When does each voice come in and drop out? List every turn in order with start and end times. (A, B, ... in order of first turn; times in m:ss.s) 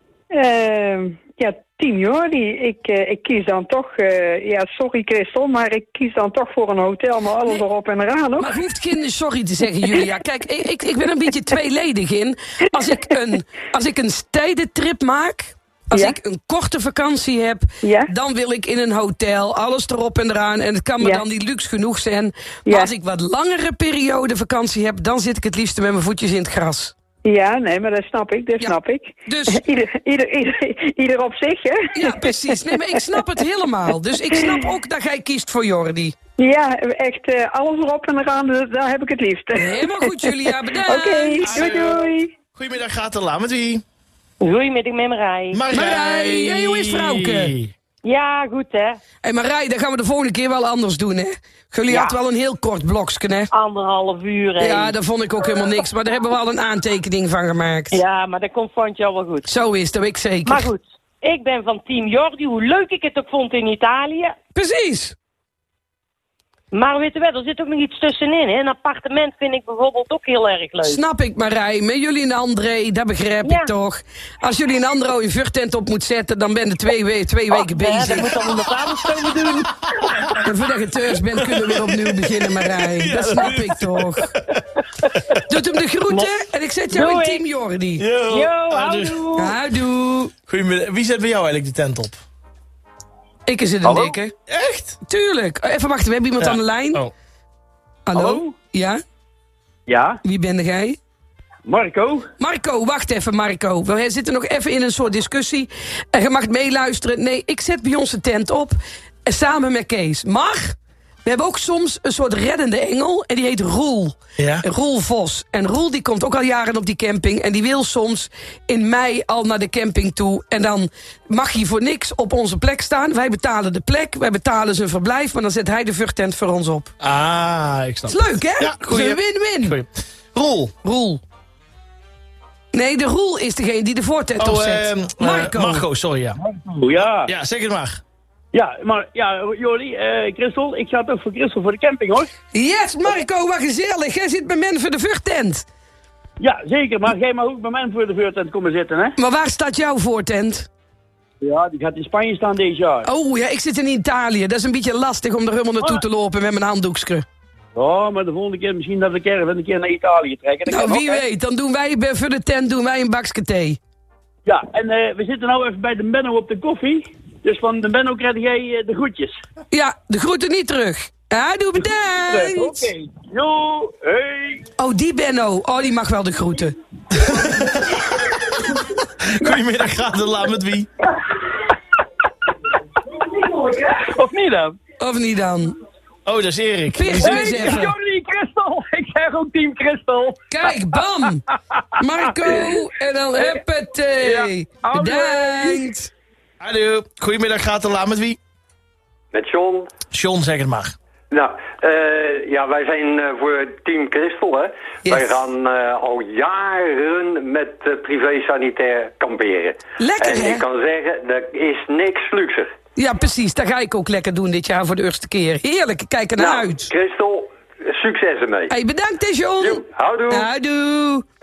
0:00.3-0:08.6 A
0:08.4-0:26.9 B
0:17.8-0:18.1 A
0:27.2-0:32.5 A
0:28.6-0:29.6 B
0:31.9-0:36.2 B
0:36.4-0:40.3 A
0:39.6-0:41.6 B
0:40.8-0:42.3 A
0:41.4-0:42.0 C
0:42.6-0:43.8 C
0:44.4-0:45.6 D
0:45.5-0:47.7 C
0:45.7-0:47.5 B
0:48.0-0:49.0 D
0:49.2-0:53.5 B
0:51.9-0:52.2 D
0:53.5-0:55.0 D
0:54.6-0:58.0 B
0:57.9-0:59.5 D
0:59.4-1:00.7 B
1:00.4-1:04.4 D
1:04.5-1:05.2 B
1:06.7-1:11.0 D
1:10.8-1:18.4 B
1:13.4-1:13.7 D
1:17.5-1:20.3 D
1:18.4-1:19.6 C
1:20.4-1:24.2 B
1:21.4-1:24.6 C
1:25.5-1:28.0 B
1:26.9-1:27.5 D
1:28.0-1:29.3 C
1:28.3-1:29.6 D
1:29.4-1:30.3 B
1:30.5-1:32.2 C
1:33.4-1:34.3 B
1:33.8-1:34.2 E
1:34.5-1:35.0 C
1:35.0-1:37.0 B
1:36.4-1:37.1 C
1:38.1-1:39.0 B
1:38.1-1:38.5 E
1:39.9-1:40.2 E
1:40.2-1:41.0 B
1:41.6-1:42.3 E
1:42.4-2:06.9 B
1:54.4-1:54.6 C
2:07.0-2:10.7 C
2:08.1-2:09.8 B
2:10.8-2:11.2 B
2:12.7-2:15.8 B
2:14.4-2:16.4 C
2:16.4-2:17.3 E
2:17.2-2:18.0 C
2:18.5-2:22.3 E
2:22.5-2:25.6 B
2:26.4-2:29.1 E
2:29.2-2:30.7 B
2:31.4-2:33.1 E
2:33.0-2:37.2 B
2:37.7-2:41.2 E
2:40.7-2:43.8 B
2:44.4-2:49.4 E
2:49.7-2:52.9 B
2:52.3-2:54.6 E
2:54.8-2:56.7 B
2:57.1-2:58.3 C
2:58.8-3:00.9 C
3:03.6-3:04.8 E
3:05.0-3:05.8 B
3:06.2-3:07.8 C
3:06.9-3:08.0 B
3:07.2-3:10.7 E
3:10.5-3:11.4 B
3:12.0-3:16.1 B
3:12.4-3:12.7 E
3:14.2-3:15.9 E
3:16.6-3:18.4 C
3:19.3-3:19.9 F
3:20.1-3:20.9 C
3:21.3-3:32.7 F
3:25.0-3:25.4 B
3:30.0-3:30.7 B
3:33.0-3:36.9 B
3:36.4-3:38.7 F
3:38.7-3:41.2 B
3:39.6-3:40.5 F